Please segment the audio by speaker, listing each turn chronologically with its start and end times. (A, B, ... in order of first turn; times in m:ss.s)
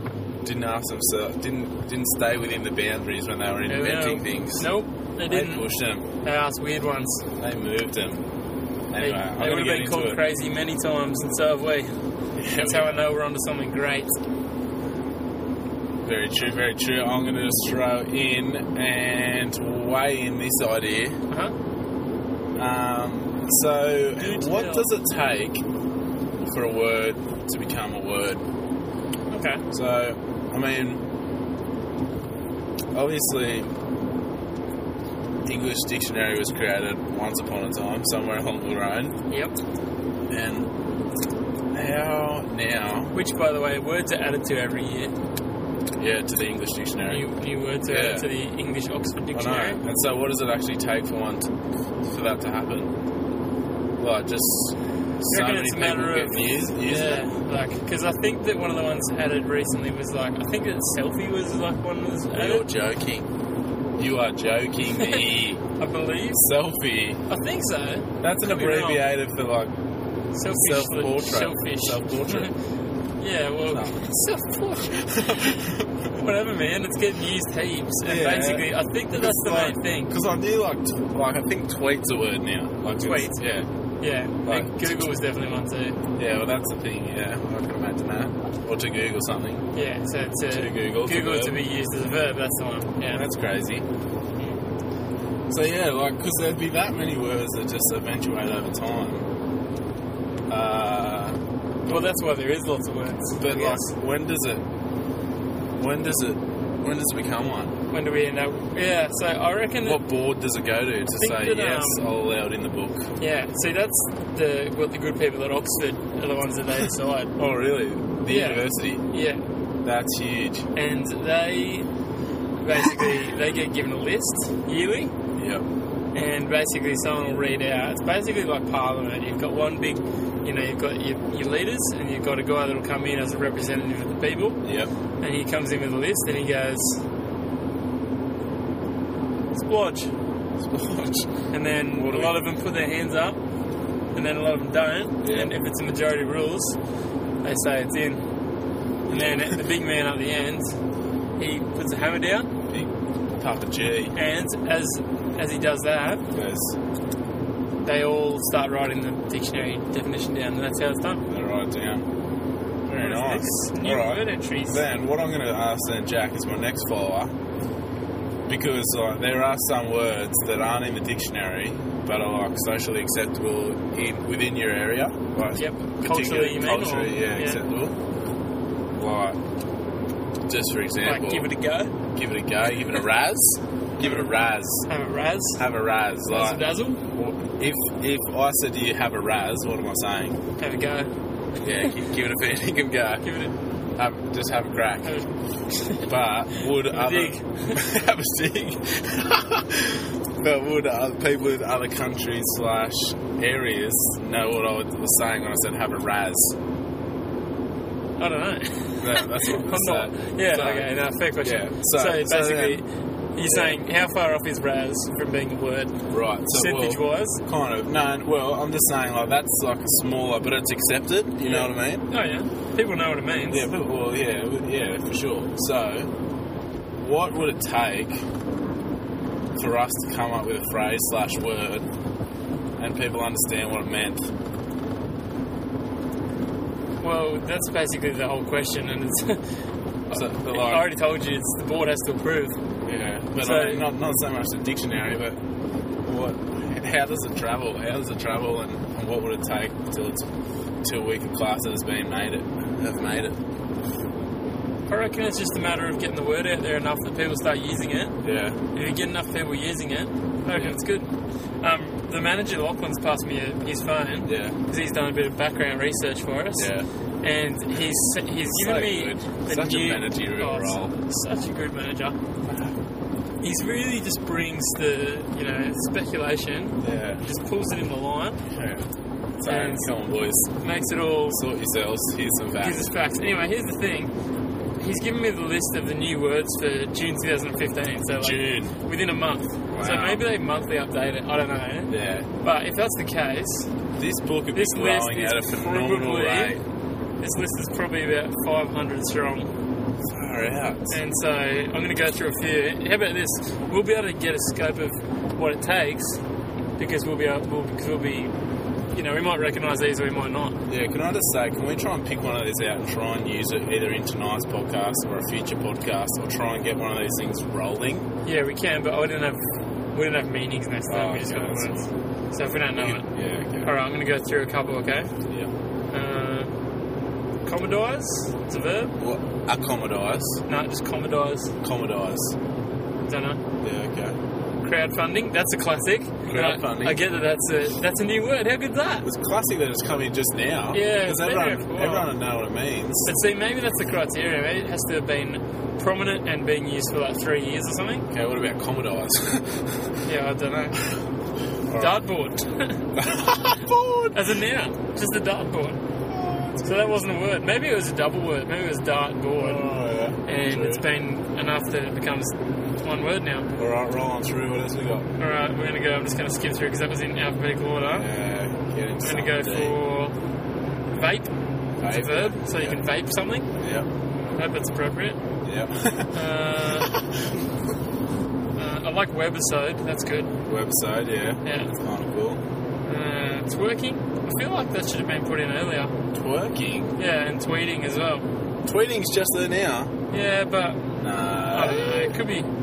0:00.4-0:04.7 A
0:03.7-0:05.6 B
0:05.2-0:06.0 A
0:06.2-0:07.2 B
0:07.4-0:08.2 A
0:08.9-0:10.2 A
0:09.0-0:11.9 B
0:12.4-0:13.0 A
0:12.6-0:14.1 B
0:16.0-0:21.2 A
0:22.6-0:25.6 A
0:24.2-0:24.9 B
0:26.4-0:28.4 A
0:29.3-0:29.6 B
0:29.7-0:31.0 A
0:32.9-0:33.7 A
0:35.4-0:39.2 A
0:39.3-0:39.5 B
0:40.3-0:40.7 A
0:41.7-0:43.2 A
0:43.1-0:45.1 B
0:46.0-0:47.2 A
0:47.0-0:49.8 B
0:47.9-0:48.3 A
0:49.3-0:51.5 A
0:52.0-0:52.9 A
0:54.0-0:57.3 A
0:55.3-1:02.6 B
1:02.3-1:03.3 A
1:04.0-1:05.6 A
1:05.0-1:05.2 B
1:05.8-1:06.4 B
1:06.4-1:07.2 A
1:07.3-1:09.1 B
1:08.2-1:09.7 A
1:10.3-1:12.5 B
1:10.5-1:12.5 A
1:13.2-1:15.5 B
1:13.7-1:14.0 A
1:15.0-1:16.1 A
1:16.1-1:20.1 B
1:18.0-1:23.6 A
1:23.0-1:23.4 B
1:24.0-1:26.0 B
1:24.4-1:25.0 A
1:26.2-1:29.7 A
1:29.7-1:33.2 B
1:30.5-1:31.6 A
1:33.0-1:33.8 A
1:35.5-1:39.3 A
1:40.5-1:42.0 A
1:41.9-1:43.9 B
1:43.4-1:44.6 A
1:45.8-1:47.8 A
1:47.9-1:50.0 B
1:49.8-1:53.1 A
1:51.2-1:52.0 B
1:53.2-1:57.3 B
1:57.4-1:59.0 A
1:58.3-1:59.4 B
1:59.8-2:00.7 A
2:00.7-2:01.9 B
2:02.6-2:05.1 B
2:05.4-2:05.6 A
2:06.1-2:14.6 B
2:14.6-2:14.9 A
2:15.2-2:17.0 B
2:19.5-2:20.1 B
2:20.6-2:22.4 A
2:21.5-2:23.4 B
2:24.1-2:26.8 B
2:25.2-2:25.5 A
2:27.4-2:28.2 B
2:29.1-2:29.6 A
2:29.1-2:30.7 B
2:31.4-2:32.5 B
2:32.7-2:34.1 A
2:34.1-2:36.2 B
2:36.3-2:36.8 A
2:37.8-2:41.2 B
2:41.3-2:42.1 A
2:42.9-2:47.3 A
2:43.0-2:44.8 B
2:48.5-2:57.9 A
2:55.5-2:57.6 B
2:59.0-2:59.4 A
3:00.5-3:01.5 A
3:01.0-3:01.9 B
3:02.1-3:04.8 A
3:04.9-3:05.6 B
3:05.6-3:10.4 A
3:06.3-3:07.0 B
3:10.6-3:11.1 B
3:11.6-3:13.3 A
3:13.2-3:13.5 B
3:14.0-3:15.2 A
3:15.0-3:16.1 B
3:16.0-3:26.5 A
3:16.8-3:17.8 B
3:28.2-3:35.9 B
3:29.0-3:32.8 A
3:33.4-3:33.8 A
3:36.1-3:42.0 A
3:36.5-3:37.4 B
3:41.4-3:43.7 B
3:43.5-3:46.1 A
3:47.0-3:48.2 A
3:49.6-3:51.9 A
3:52.8-3:54.3 A
3:57.0-3:59.4 B
4:00.1-4:02.6 B
4:00.1-4:00.9 A
4:02.8-4:05.4 A
4:03.4-4:03.9 B
4:06.0-4:10.2 A
4:10.8-4:13.4 A
4:14.9-4:18.2 B
4:18.2-4:18.6 A
4:18.7-4:26.7 B
4:20.5-4:20.8 A
4:24.2-4:24.6 A
4:26.6-4:26.8 A
4:27.2-4:32.2 B
4:28.5-4:30.9 A
4:32.4-4:32.7 A
4:33.4-4:38.4 B
4:36.8-4:37.2 A
4:38.5-4:38.8 A
4:39.4-4:40.5 A
4:39.5-4:39.9 B
4:40.6-4:41.4 B
4:41.3-4:42.8 A
4:42.6-4:44.1 B
4:44.8-4:53.7 B
4:48.2-4:48.8 A
4:49.7-4:50.2 A
4:51.9-4:52.3 A
4:54.0-4:56.6 A
4:54.5-4:56.6 B
4:57.2-4:59.5 B
5:00.0-5:00.9 A
5:00.9-5:06.2 B
5:06.8-5:08.3 B
5:08.9-5:10.6 B
5:10.7-5:18.1 A
5:18.2-5:19.4 B
5:19.9-5:23.0 B
5:20.9-5:21.9 A
5:22.7-5:23.7 A
5:23.6-5:25.1 B
5:25.9-5:26.5 B
5:27.4-5:28.9 B
5:29.0-5:30.4 A
5:30.5-5:31.5 B
5:31.6-5:32.4 A
5:33.0-5:33.4 B
5:33.6-5:34.2 A
5:34.6-5:39.0 B
5:36.2-5:37.0 A
5:39.0-5:43.1 A
5:40.7-5:42.1 B
5:43.0-5:48.1 B
5:48.1-5:50.0 A
5:50.0-5:50.8 B
5:51.7-5:52.0 A
5:51.8-5:52.9 B
5:53.0-5:54.2 A
5:54.1-5:55.8 B
5:56.1-5:56.9 A
5:56.6-5:59.6 B
5:59.4-6:00.8 A
6:00.2-6:03.5 B
6:03.6-6:05.1 A
6:05.2-6:08.1 B
6:07.9-6:09.8 A
6:09.0-6:10.1 B
6:10.9-6:11.3 B
6:11.8-6:12.8 A
6:11.9-6:13.5 B
6:13.6-6:13.9 A
6:14.3-6:15.2 B
6:15.4-6:17.0 A
6:16.1-6:16.9 B
6:18.5-6:20.3 B
6:20.4-6:22.4 A
6:21.4-6:21.7 B
6:22.8-6:25.9 B
6:26.1-6:27.0 A
6:27.0-6:28.3 B
6:28.6-6:29.9 A
6:30.1-6:30.9 B
6:31.0-6:32.2 A
6:31.5-6:32.5 B